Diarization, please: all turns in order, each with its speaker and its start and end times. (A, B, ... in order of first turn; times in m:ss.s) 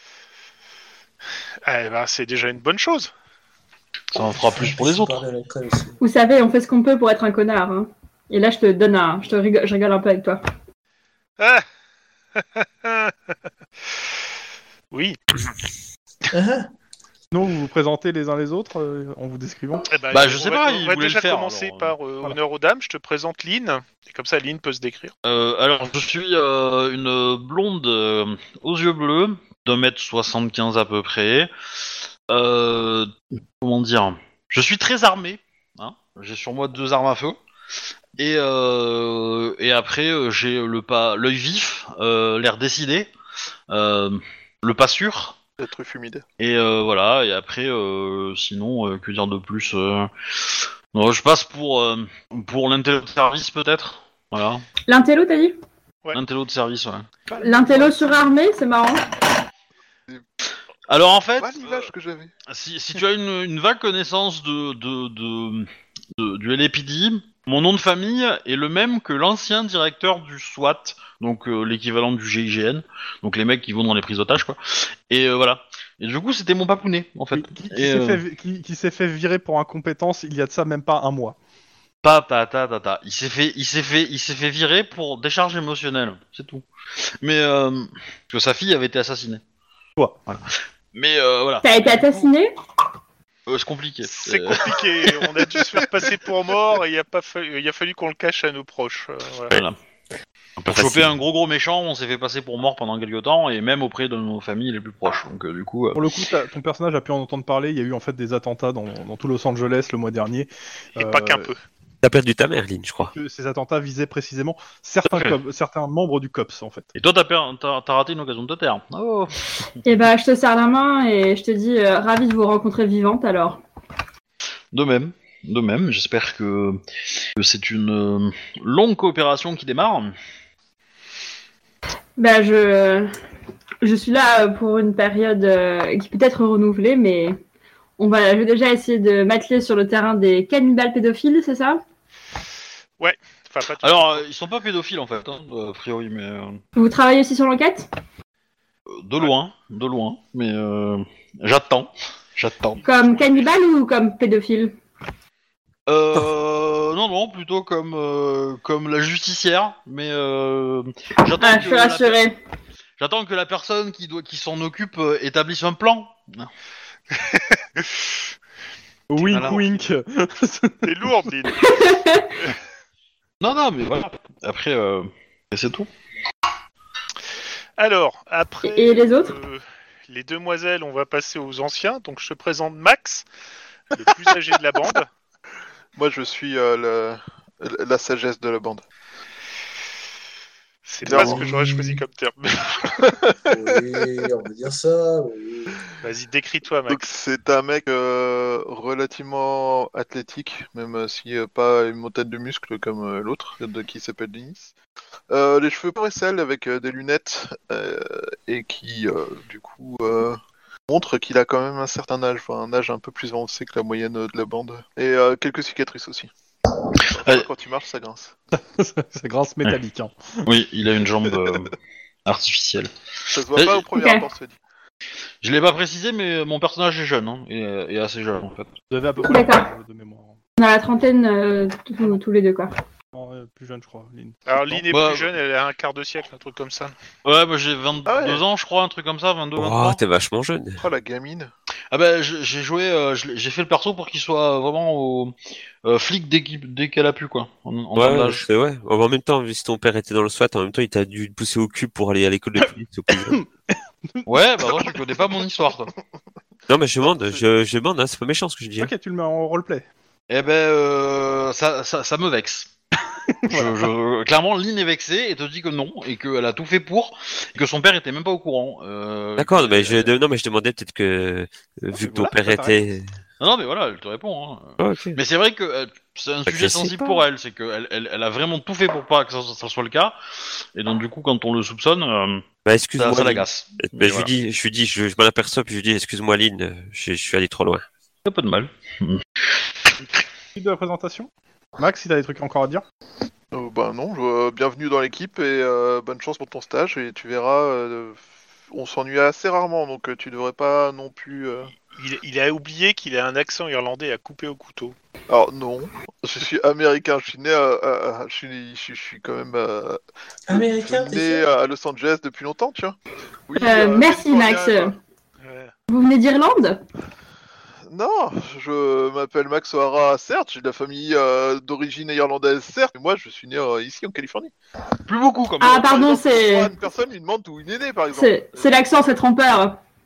0:01.6-0:03.1 A
0:04.1-0:05.2 B
0:04.2-0:06.0 C
0:06.0-0:10.4 D
0:11.4-0:11.6 A
0:12.4-0:13.1 A
0:14.9-0:15.2 A
0:16.3-0:16.7 C
0:17.3-0:19.9 E
0:19.9-0:25.1 A
0:20.1-0:22.0 B
0:25.2-0:31.5 B
0:32.3-0:37.4 B
0:38.2-0:43.1 B
0:43.7-0:45.4 B
0:45.6-0:46.2 F
0:46.4-0:54.6 B
0:54.9-0:55.6 D
0:56.1-0:57.1 B
0:57.3-0:57.9 A
0:57.4-0:57.8 E
0:57.4-0:59.1 D
1:00.9-1:01.9 B
1:01.4-1:02.3 F
1:02.5-1:18.2 B
1:17.3-1:21.4 E
1:22.0-1:26.6 B
1:27.2-1:29.4 B
1:30.3-1:32.3 B
1:31.6-1:32.5 D
1:33.5-1:35.1 B
1:34.0-1:39.6 A
1:39.5-1:39.8 B
1:40.6-1:46.0 B
1:40.7-1:41.1 G
1:45.9-1:51.5 E
1:51.0-1:51.6 A
1:52.0-1:53.1 G
1:53.1-1:56.9 E
1:56.9-1:59.3 B
1:59.8-2:03.6 D
2:04.7-2:06.8 B
2:07.4-2:10.1 B
2:12.2-2:13.1 D
2:13.8-2:17.4 D
2:18.0-2:21.8 D
2:23.0-2:24.2 A
2:23.8-2:26.6 B
2:26.8-2:27.9 D
2:28.9-2:32.8 B
2:32.7-2:33.6 A
2:32.8-2:34.8 D
2:35.9-2:42.2 B
2:41.4-2:42.4 D
2:43.0-2:46.5 B
2:47.2-2:47.8 A
2:49.1-2:50.9 E
2:49.2-2:49.6 A
2:49.3-2:49.9 B
2:50.8-2:52.6 A
2:51.6-2:52.3 D
2:53.4-2:55.9 B
2:57.8-3:03.2 A
2:58.6-2:59.3 D
3:03.9-3:05.1 A
3:05.9-3:08.8 F
3:10.8-3:13.0 A
3:11.0-3:11.5 F
3:11.1-3:12.0 C
3:13.0-3:13.4 F
3:13.4-3:15.8 C
3:16.0-3:17.0 A
3:16.9-3:24.7 F
3:25.3-3:36.3 F
3:37.0-3:38.3 F
3:38.6-3:40.4 E
3:40.4-3:41.7 B
3:42.2-3:42.9 B
3:43.3-3:44.6 F
3:43.5-3:43.8 B
3:43.9-3:44.2 D
3:45.4-3:48.7 B
3:48.9-3:50.4 E
3:49.2-3:49.7 D
3:50.6-3:52.7 D
3:53.1-3:54.8 E
3:54.4-3:56.9 A
3:54.9-3:55.3 B
3:57.2-4:00.0 B
3:58.0-3:58.4 F
3:59.6-4:00.8 G
4:00.8-4:01.5 F
4:01.9-4:05.3 B
4:05.8-4:08.5 B
4:07.9-4:13.4 G
4:13.1-4:13.4 E
4:14.1-4:14.8 E
4:14.2-4:15.9 B
4:16.7-4:18.9 G
4:17.0-4:17.4 E
4:18.8-4:19.8 E
4:20.3-4:22.7 B
4:23.3-4:23.9 E
4:23.5-4:30.1 B
4:29.4-4:33.1 G
4:32.0-4:32.8 E
4:33.4-4:40.1 B
4:34.8-4:35.2 G
4:36.5-4:37.2 G
4:40.8-4:42.4 B
4:42.6-4:47.8 G
4:43.0-4:44.3 B
4:48.2-4:49.2 B
4:50.5-4:52.8 E
4:53.5-5:01.7 F
5:01.9-5:05.0 A
5:05.3-5:13.0 F
5:10.5-5:11.5 C
5:13.5-5:15.0 F
5:13.6-5:15.0 D
5:15.4-5:15.7 A
5:15.9-5:16.8 D
5:17.9-5:24.5 F
5:25.1-5:25.9 B
5:25.6-5:26.7 D
5:25.7-5:28.9 F
5:28.1-5:29.8 D